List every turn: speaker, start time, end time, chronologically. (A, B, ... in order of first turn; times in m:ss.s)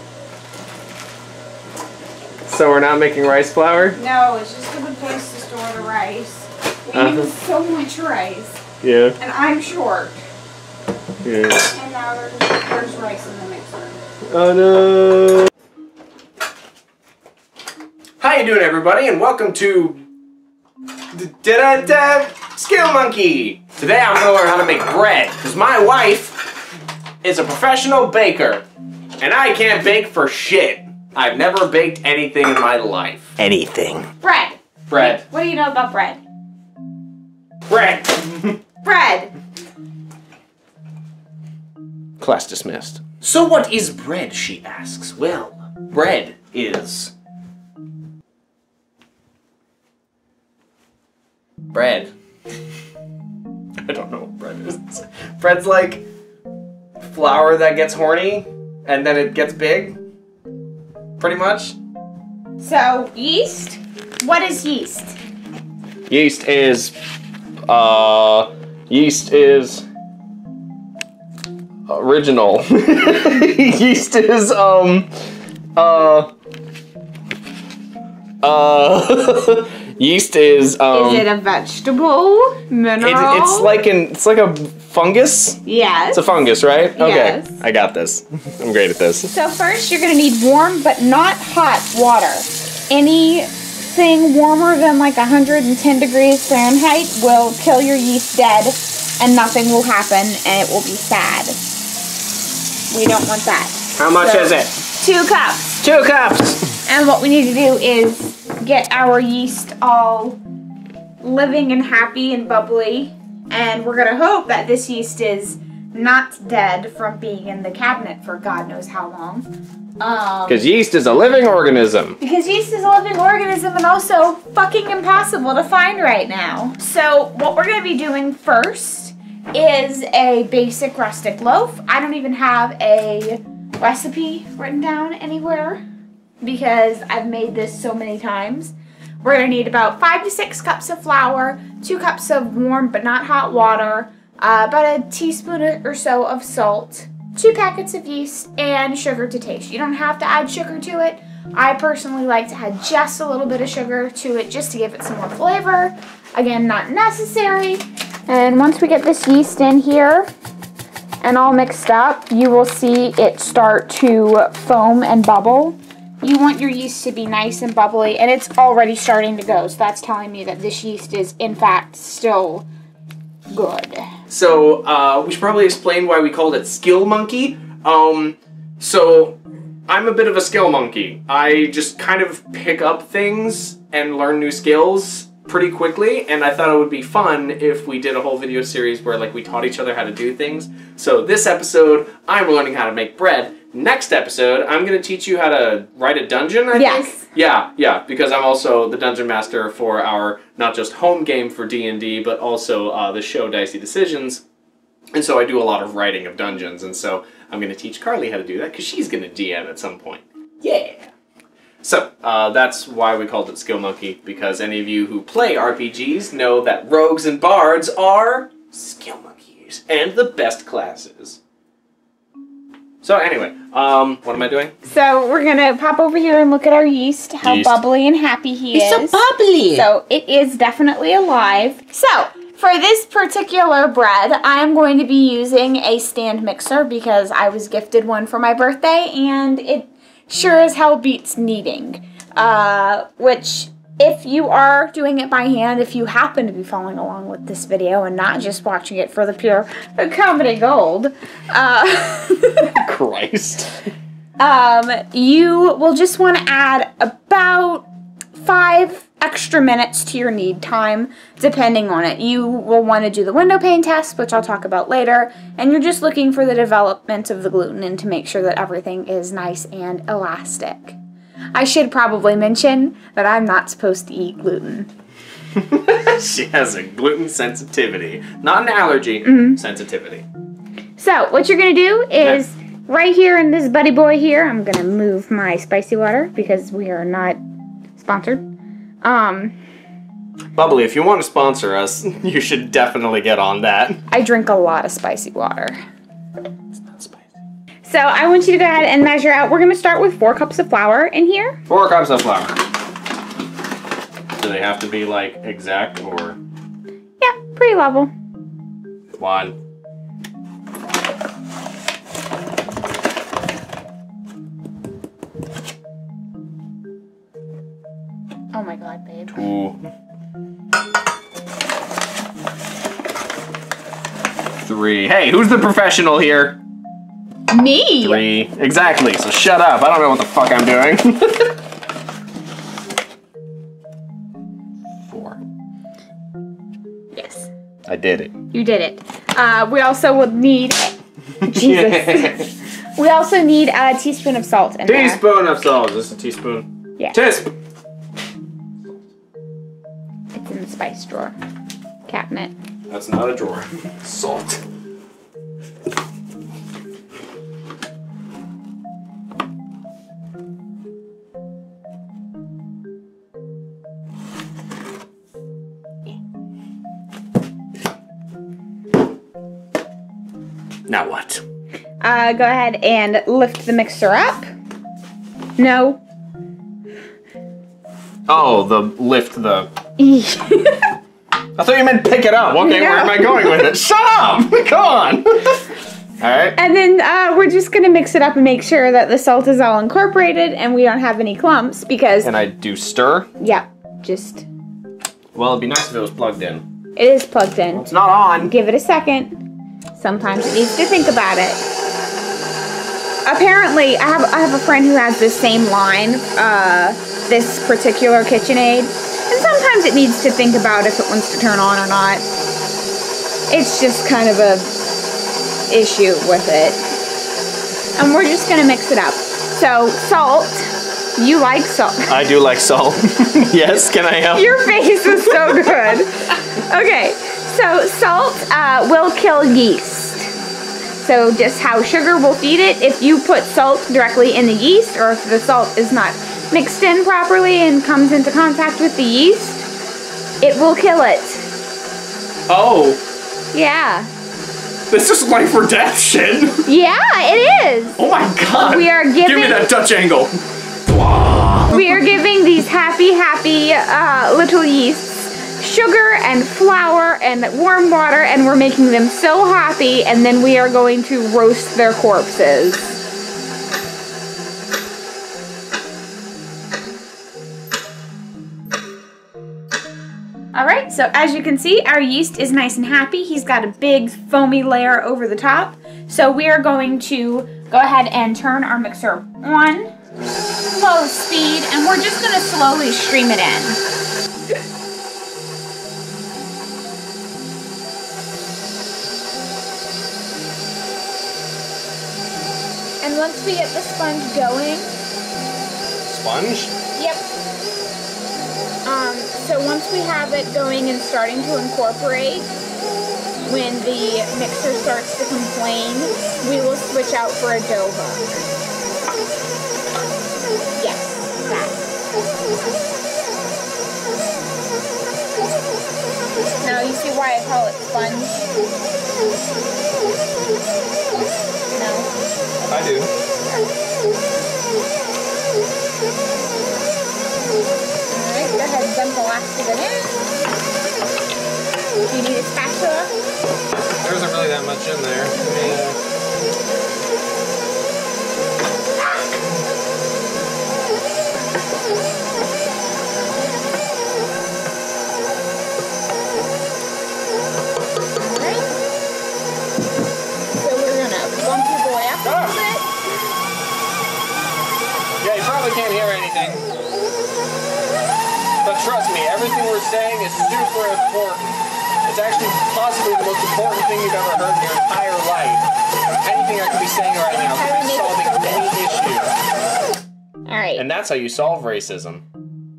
0:02.4-0:04.0 A
0:04.0-0:08.6 B
0:06.9-0:07.3 A
0:08.8-0:09.2 A
0:09.2-0:10.2 B
0:11.2-0:11.7 A
0:11.7-0:14.0 B
0:14.3-0:15.5 A
0:18.2-0:20.0 A
0:21.1-0:26.5 A
0:27.2-0:28.6 A
0:29.2-0:34.1 A
0:34.2-0:36.2 B
0:34.9-0:35.2 A
0:37.7-0:38.6 A
0:38.8-0:39.3 B
0:42.2-0:47.1 A
0:51.7-0:52.1 A
0:53.8-0:56.0 A
0:57.0-1:00.0 A
1:01.2-1:01.8 A
1:02.6-1:05.2 B
1:06.1-1:06.9 A
1:07.7-1:09.8 A
1:11.9-1:15.1 A
1:15.8-1:16.3 A
1:18.4-1:21.3 A
1:20.9-1:23.8 B
1:23.0-1:29.3 A
1:25.6-1:26.2 B
1:27.0-1:27.6 B
1:29.3-1:41.6 B
1:42.9-1:45.8 B
1:44.0-1:44.8 A
1:45.8-1:46.7 A
1:46.8-1:50.4 B
1:51.2-1:59.4 B
2:00.0-2:00.6 B
2:00.5-2:02.2 A
2:02.2-2:15.8 B
2:16.4-2:40.3 B
2:41.2-2:52.7 B
2:53.5-2:54.0 B
2:54.3-3:24.4 A
3:16.7-3:17.3 B
3:25.1-3:31.1 A
3:31.8-3:41.4 A
3:43.0-3:44.7 A
3:44.8-3:49.2 B
3:47.4-3:47.8 A
3:48.7-3:49.9 A
3:49.7-4:12.8 B
4:12.7-4:13.8 A
4:14.4-4:17.9 B
4:18.4-4:31.0 B
4:31.5-4:34.9 B
4:35.5-4:40.2 A
4:39.2-4:39.6 B
4:41.0-4:47.4 B
4:48.0-4:48.4 B
4:49.0-4:49.5 B
4:50.5-4:54.0 A
4:54.1-4:55.8 B
4:56.7-4:57.3 A
4:57.8-5:01.6 B
5:01.7-5:02.6 A
5:04.4-5:06.4 A
5:07.2-5:08.1 B
5:09.2-5:09.6 A
5:18.5-5:19.3 B
5:19.3-5:19.8 A
5:24.6-5:26.6 A
5:27.5-5:28.2 B
5:28.0-5:31.6 A
5:35.0-5:35.4 A
5:37.1-5:37.5 B
5:37.9-5:38.3 A
5:38.5-5:45.2 B
5:41.4-5:42.5 A
5:44.9-5:47.5 A
5:50.3-5:51.3 B
5:52.1-5:52.5 B
5:52.9-5:54.6 A
6:10.9-6:11.4 A
6:12.0-6:14.5 B
6:15.6-6:16.0 B
6:18.3-6:19.7 A
6:20.0-6:20.9 B
6:21.6-6:25.6 A
6:22.5-6:23.7 B
6:26.2-6:26.6 A
6:26.6-6:32.3 B
6:32.2-6:33.3 A
6:33.4-6:34.5 B
6:35.3-6:36.6 A
6:37.0-6:37.9 B
6:37.7-6:38.5 A
6:38.4-6:39.4 B
6:40.0-6:41.6 B
6:43.2-6:52.2 B
6:53.5-6:54.8 B
6:55.7-6:56.8 B
6:58.0-7:02.1 B
7:02.1-7:06.0 A
7:04.3-7:10.3 B
7:10.9-7:19.7 B
7:20.4-7:21.5 B
7:22.5-7:23.0 A
7:23.5-7:24.1 B
7:24.9-7:26.6 A
7:26.6-7:28.0 B
7:28.0-7:32.1 A
7:28.6-7:29.7 B
7:31.7-7:42.9 B
7:50.5-7:59.9 B
8:00.7-8:03.8 B
8:13.0-8:14.9 B
8:16.0-8:16.7 A
8:16.9-8:17.2 B
8:18.8-8:22.5 B
8:23.4-8:28.3 B
8:30.8-8:31.8 B
8:36.6-8:38.5 B
8:41.7-8:42.1 B
8:42.6-8:43.1 A
8:48.1-8:50.1 B
8:52.0-8:53.1 B
8:54.0-8:56.0 A
9:08.2-9:08.8 B
9:10.6-9:12.8 B
9:12.2-9:12.6 A
9:15.2-9:16.7 A
9:18.6-9:25.6 A
9:26.2-9:29.3 A
9:27.6-9:28.6 B
9:30.5-9:30.8 B
9:30.8-9:32.2 A